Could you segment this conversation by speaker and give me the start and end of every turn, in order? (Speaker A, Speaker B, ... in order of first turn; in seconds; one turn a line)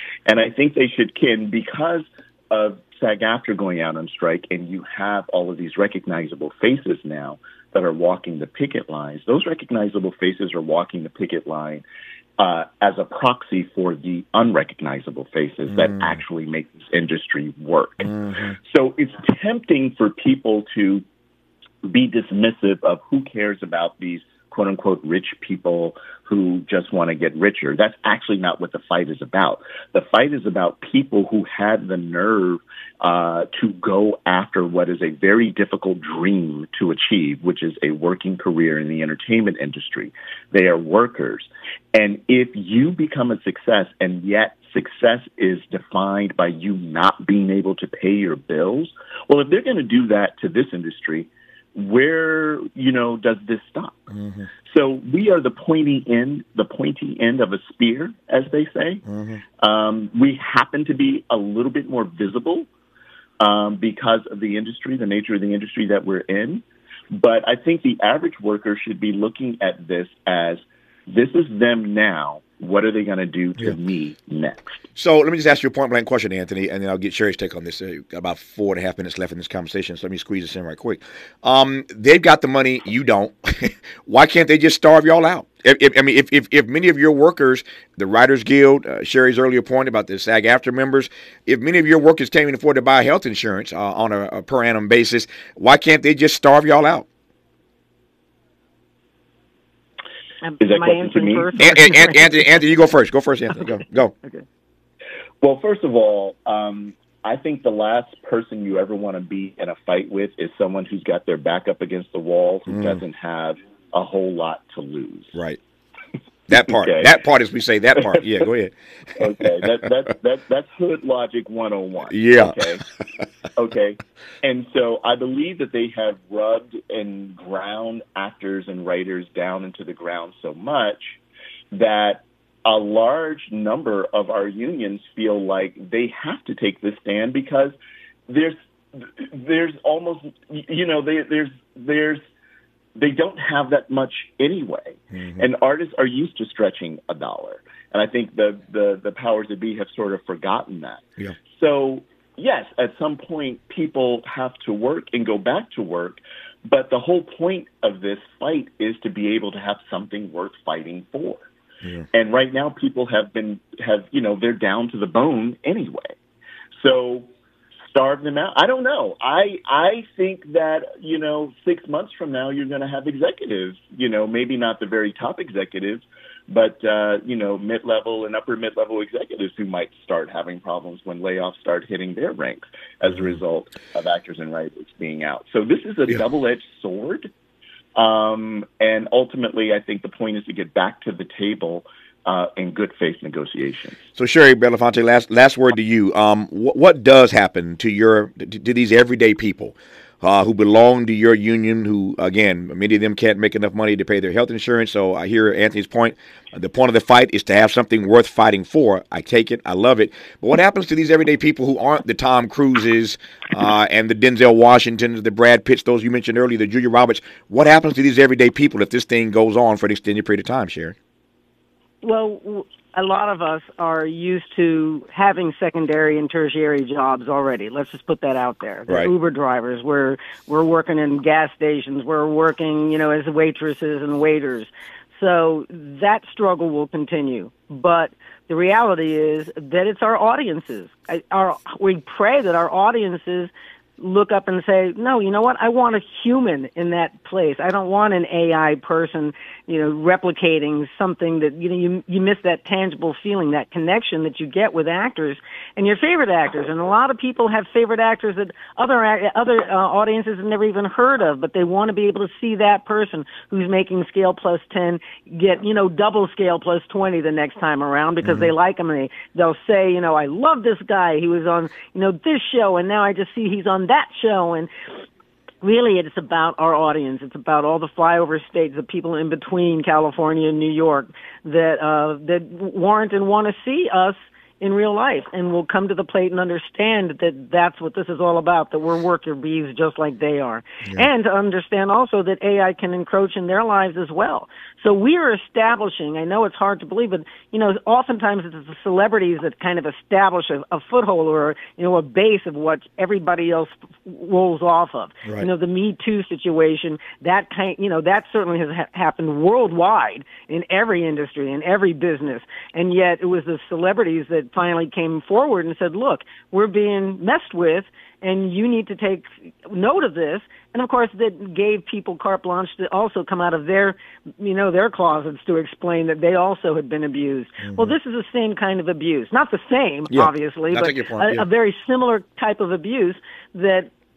Speaker A: 0.2-11.8
Speaker A: 12.4-21.0
Speaker B: 18.0-18.6
Speaker A: 21.8-54.1
Speaker B: 54.1-54.5
Speaker A: 54.6-59.0
Speaker B: 59.0-59.4
Speaker A: 59.6-62.7
Speaker A: 63.4-74.8
Speaker B: 75.0-97.0
Speaker C: 100.4-102.6
Speaker A: 100.6-101.5
Speaker B: 101.6-104.1
Speaker A: 105.4-115.3
Speaker B: 112.7-113.0
Speaker B: 115.3-115.6
Speaker B: 116.5-119.4
Speaker A: 116.5-117.1
Speaker A: 119.2-122.8
Speaker B: 122.1-122.6
Speaker A: 123.5-131.2
Speaker A: 131.7-137.7
Speaker A: 138.3-142.2
Speaker A: 142.9-161.4
Speaker A: 162.1-166.1
Speaker A: 166.7-167.3
Speaker A: 167.8-187.3
Speaker A: 187.9-194.0
Speaker B: 194.1-220.9
Speaker C: 222.0-274.7
Speaker B: 268.2-268.5
Speaker C: 275.6-333.9
Speaker B: 327.6-327.9
Speaker B: 330.1-331.4